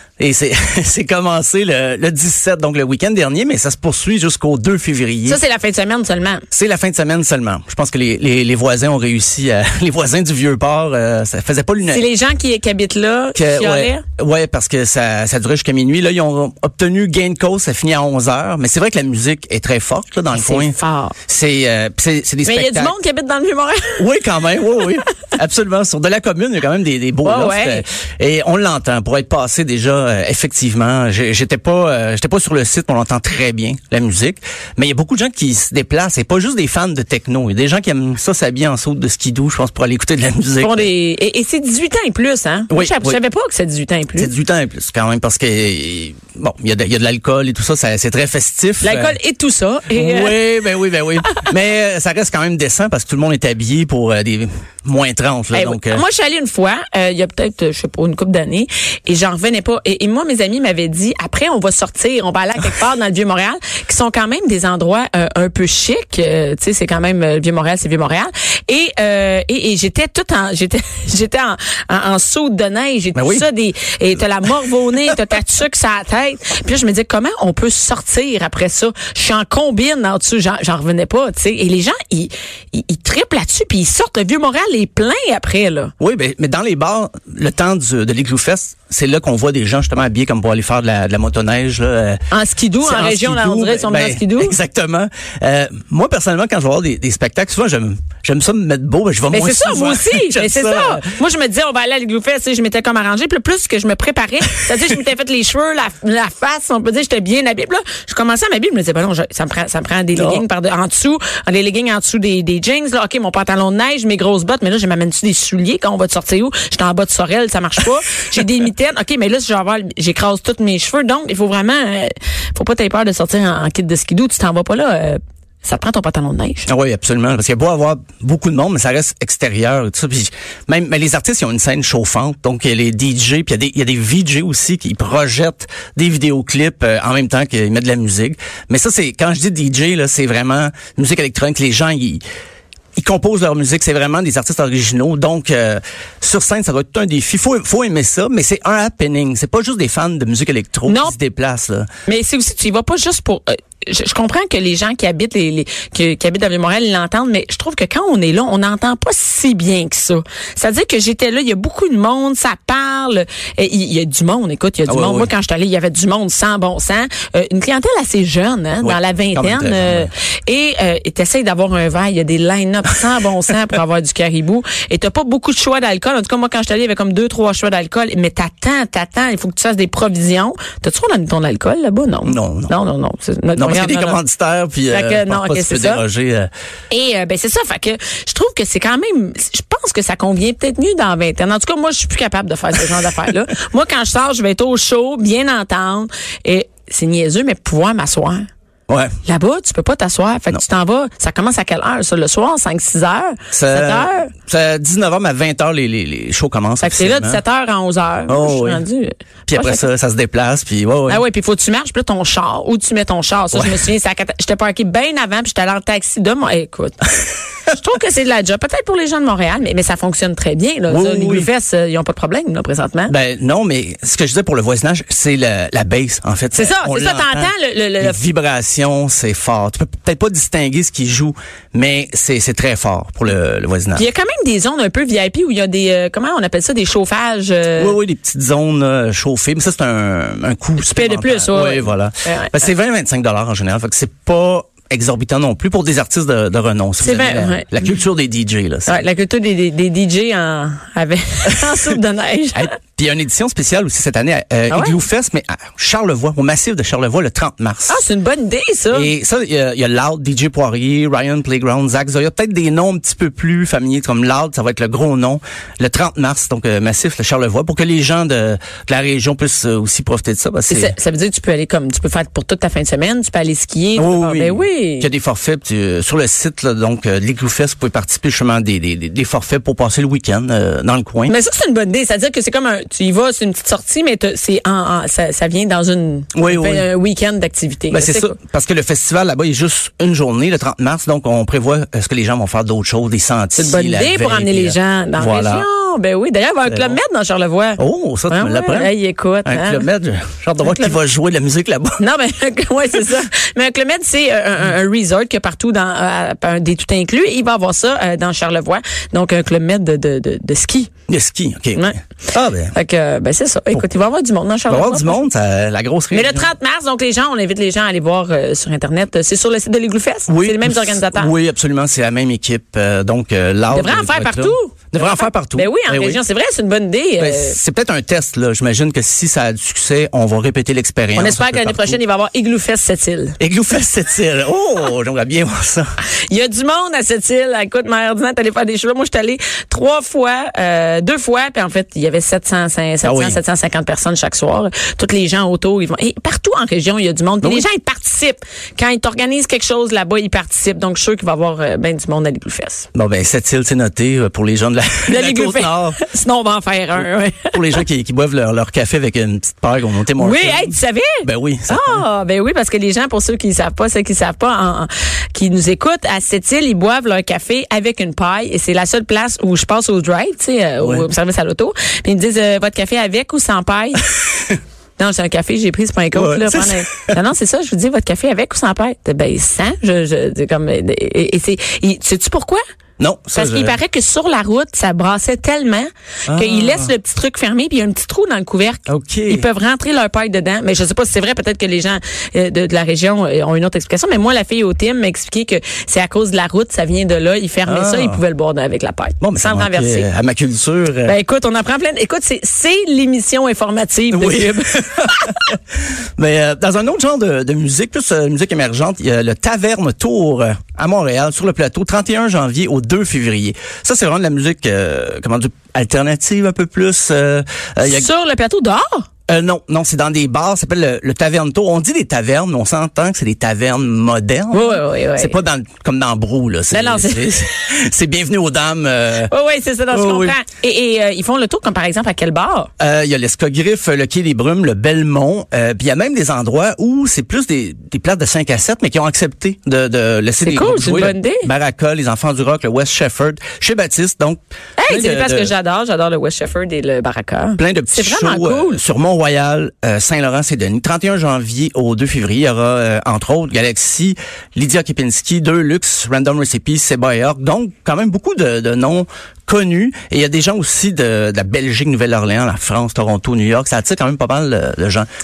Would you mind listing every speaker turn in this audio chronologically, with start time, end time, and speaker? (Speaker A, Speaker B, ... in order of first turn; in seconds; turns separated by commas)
Speaker A: 0.2-5.4, Speaker B: 5.2-6.5, Speaker A: 6.5-12.0, Speaker B: 11.9-14.0, Speaker A: 13.3-20.8, Speaker B: 20.3-21.1, Speaker A: 21.3-22.9, Speaker B: 22.4-24.1, Speaker A: 24.0-40.9, Speaker B: 27.2-27.8, Speaker B: 40.6-44.3, Speaker A: 42.7-43.2, Speaker A: 44.2-49.2, Speaker B: 48.8-50.4, Speaker A: 49.9-56.0, Speaker B: 55.5-85.9, Speaker A: 73.1-73.4, Speaker A: 86.0-92.2, Speaker B: 92.3-94.5, Speaker A: 92.8-101.0, Speaker B: 99.3-126.7, Speaker A: 110.1-110.4, Speaker A: 126.7-142.2, Speaker A: 143.0-151.9, Speaker B: 150.8-151.1, Speaker B: 152.1-184.2, Speaker A: 164.9-165.3, Speaker A: 168.8-170.1, Speaker A: 182.2-182.7, Speaker A: 183.6-186.5, Speaker B: 184.9-186.0, Speaker B: 186.9-198.4, Speaker A: 198.9-199.1, Speaker B: 199.2-204.3, Speaker A: 203.5-207.4, Speaker B: 206.8-209.8, Speaker A: 208.3-208.8, Speaker A: 209.5-211.2, Speaker B: 211.1-217.1, Speaker A: 213.5-213.8, Speaker B: 217.7-223.1, Speaker A: 220.9-221.5, Speaker A: 223.1-234.1, Speaker B: 226.5-228.2, Speaker B: 233.9-237.9, Speaker A: 237.8-249.0, Speaker B: 240.8-242.6, Speaker B: 247.0-247.7, Speaker B: 248.9-252.7, Speaker A: 252.5-258.0, Speaker B: 254.7-255.0, Speaker B: 257.9-259.1, Speaker A: 258.9-270.9, Speaker B: 270.7-275.1, Speaker A: 274.0-281.3, Speaker B: 281.2-288.3, Speaker A: 286.3-286.9, Speaker A: 287.9-295.6, Speaker B: 293.6-299.9, Speaker A: 296.6-297.0, Speaker A: 297.8-298.9, Speaker A: 299.4-302.0, Speaker B: 302.0-310.9, Speaker A: 311.1-312.7, Speaker B: 312.7-315.2, Speaker A: 314.7-316.5, Speaker B: 316.1-321.3, Speaker A: 320.3-326.2, Speaker B: 323.7-327.6, Speaker A: 327.2-332.0, Speaker B: 331.1-333.4, Speaker A: 333.4-335.9, Speaker B: 336.3-352.9, Speaker A: 343.0-343.4, Speaker A: 352.9-356.0, Speaker B: 355.1-357.8, Speaker A: 356.9-362.0, Speaker B: 360.2-374.0, Speaker A: 370.8-371.1, Speaker B: 375.0-382.6, Speaker A: 376.1-377.1, Speaker A: 383.0-383.8, Speaker B: 383.3-400.1, Speaker A: 386.3-386.9, Speaker A: 388.9-389.5, Speaker A: 397.6-398.2, Speaker A: 399.2-401.1, Speaker B: 401.0-405.3, Speaker A: 404.1-405.6, Speaker A: 406.2-418.1, Speaker B: 417.8-419.1, Speaker A: 419.3-429.3, Speaker B: 424.5-425.4, Speaker B: 426.7-427.3, Speaker B: 429.3-432.7, Speaker A: 429.9-430.4, Speaker A: 432.8-445.5, Speaker B: 440.4-441.5, Speaker B: 444.8-448.8, Speaker A: 447.6-465.1